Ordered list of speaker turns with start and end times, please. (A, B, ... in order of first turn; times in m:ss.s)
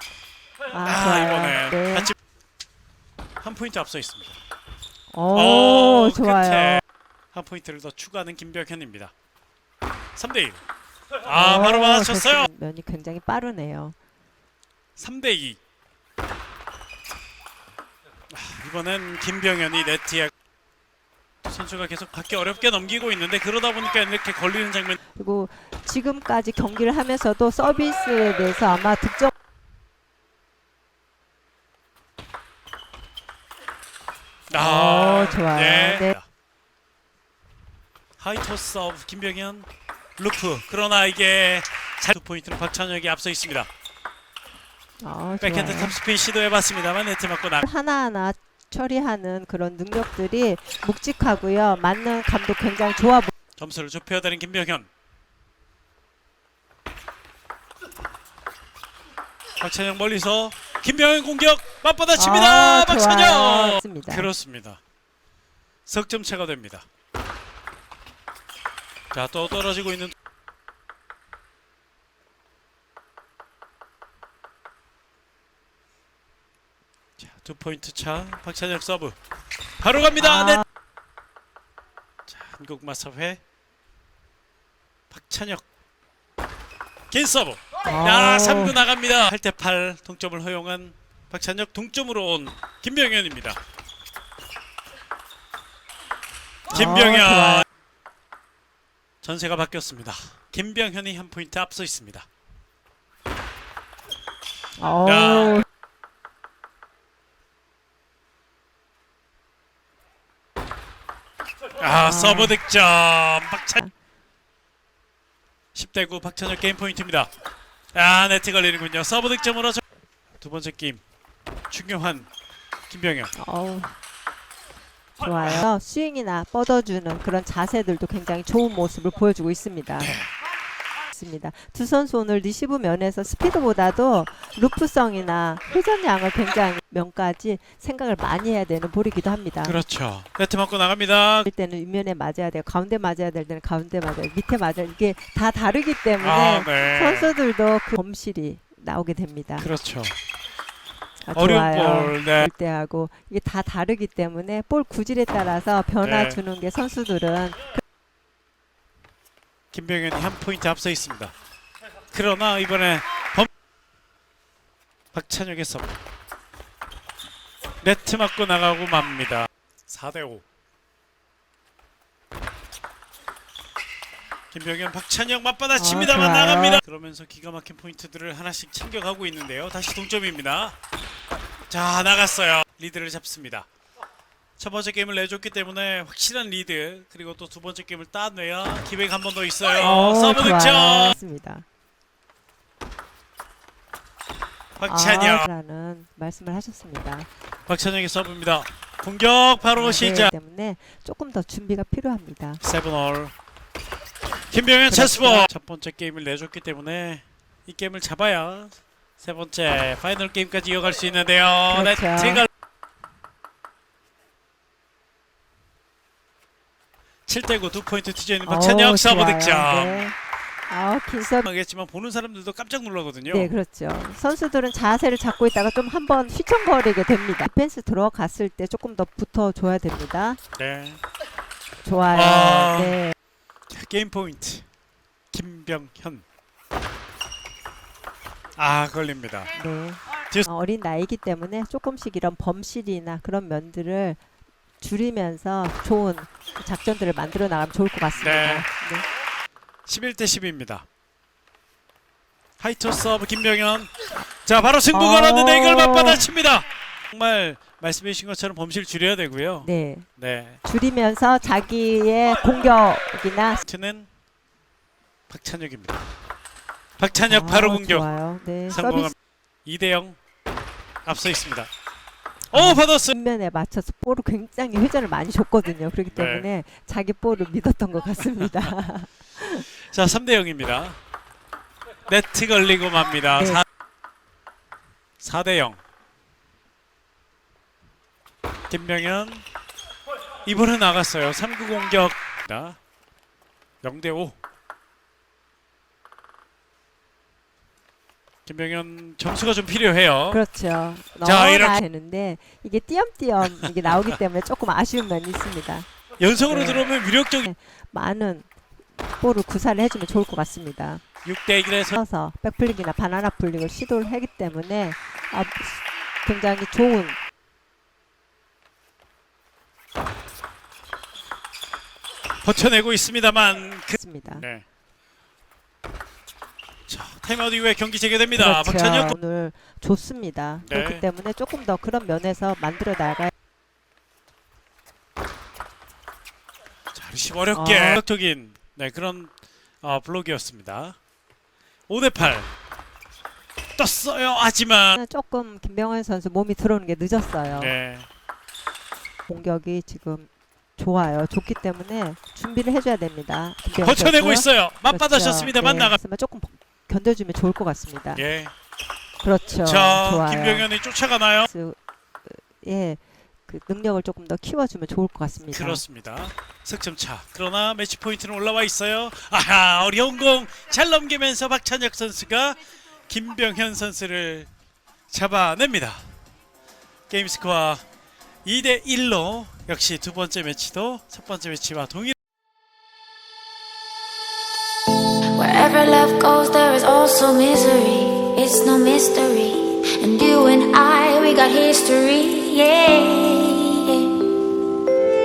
0:00.7-0:02.1 A
0:00.8-0:02.1 B
0:03.4-0:04.4 B
0:05.1-0:06.8 A
0:05.3-0:09.1 B
0:10.1-0:10.6 B
0:11.2-0:12.5 B
0:11.2-0:14.0 A
0:15.0-0:15.6 B
0:18.3-0:20.3 B
0:21.4-0:25.0 B
0:25.1-0:29.3 A
0:34.5-0:36.2 B
0:34.5-0:36.1 A
0:38.2-0:43.7 B
0:45.0-0:46.0 A
0:45.4-0:47.7 B
0:47.6-0:53.3 A
0:53.6-0:54.9 B
0:59.6-1:04.8 B
1:02.1-1:04.3 A
1:05.8-1:06.9 B
1:09.1-1:10.1 B
1:17.2-1:19.2 B
1:19.8-1:20.6 B
1:20.2-1:20.6 A
1:22.3-1:23.4 B
1:25.1-1:25.6 B
1:27.1-1:33.6 B
1:27.8-1:28.8 A
1:36.7-1:37.6 B
1:36.7-1:37.6 A
1:39.2-1:42.3 B
1:44.8-1:45.6 A
1:45.0-1:45.6 B
1:51.8-1:53.8 B
1:52.0-1:52.6 A
1:55.7-1:57.3 B
1:57.9-1:59.8 B
2:00.4-2:01.0 B
2:01.7-2:02.3 B
2:02.9-2:03.3 B
2:03.4-2:04.0 A
2:05.2-2:10.2 A
2:10.0-2:10.3 B
2:11.1-2:19.8 A
2:19.6-2:21.5 B
2:21.4-2:29.7 A
2:26.2-2:27.3 B
2:29.6-2:30.2 B
2:31.2-2:37.8 A
2:31.3-2:32.5 B
2:36.0-2:36.4 B
2:39.7-2:41.3 B
2:42.1-2:43.5 B
2:45.1-2:46.0 B
2:47.8-2:50.4 B
2:54.5-3:00.8 B
2:55.7-2:56.8 A
3:01.7-3:03.7 B
3:04.6-3:11.2 B
3:09.8-3:11.6 A
3:14.8-3:15.5 B
3:14.8-3:17.3 A
3:17.7-3:20.3 B
3:19.7-3:22.6 A
3:22.6-3:23.3 B
3:24.5-3:32.5 B
3:24.9-3:25.5 A
3:31.7-3:32.5 A
3:37.3-3:40.1 B
3:38.4-3:40.2 A
3:40.7-3:41.4 A
3:41.4-3:43.5 B
3:43.3-3:50.4 A
3:50.5-3:51.0 B
3:51.8-3:53.1 A
3:52.1-3:53.0 B
3:53.7-3:54.6 B
3:55.3-3:56.2 B
3:58.6-3:59.5 B
3:59.5-4:04.2 A
4:04.8-4:09.0 A
4:08.2-4:08.6 B
4:09.8-4:10.9 B
4:12.6-4:13.9 B
4:14.4-4:20.6 B
4:14.9-4:16.2 A
4:19.6-4:20.1 A
4:20.6-4:23.6 A
4:23.6-4:24.1 B
4:25.3-4:26.0 B
4:27.0-4:28.1 B
4:27.2-4:29.1 A
4:28.7-4:29.1 B
4:29.6-4:30.2 B
4:31.0-4:31.7 B
4:32.5-4:33.2 B
4:32.5-4:39.7 A
4:36.1-4:36.5 B
4:38.4-4:38.7 B
4:39.8-4:41.0 B
4:42.0-4:43.6 B
4:43.4-4:43.6 A
4:45.2-4:45.8 B
4:48.7-4:49.4 B
4:50.4-4:52.8 B
4:53.8-4:54.4 B
4:58.4-5:00.4 B
5:00.3-5:05.9 A
5:01.2-5:01.8 B
5:03.6-5:04.1 B
5:06.2-5:07.5 B
5:06.5-5:06.9 A
5:07.4-5:08.5 A
5:09.1-5:11.0 A
5:11.2-5:12.0 B
5:11.9-5:17.2 A
5:22.4-5:24.6 B
5:24.0-5:24.4 A
5:26.9-5:29.2 B
5:28.3-5:33.3 A
5:30.6-5:31.0 B
5:36.9-5:41.0 B
5:37.5-5:38.0 A
5:41.9-5:42.5 B
5:43.8-5:45.0 B
5:44.9-5:47.7 A
5:47.5-5:48.1 B
5:49.3-5:58.2 A
5:53.8-5:56.0 B
5:58.1-5:58.5 B
5:59.2-6:00.7 A
5:59.6-6:01.5 B
6:01.5-6:05.8 A
6:05.5-6:14.5 B
6:15.1-6:16.0 B
6:17.1-6:17.8 B
6:18.4-6:22.1 B
6:25.3-6:34.3 C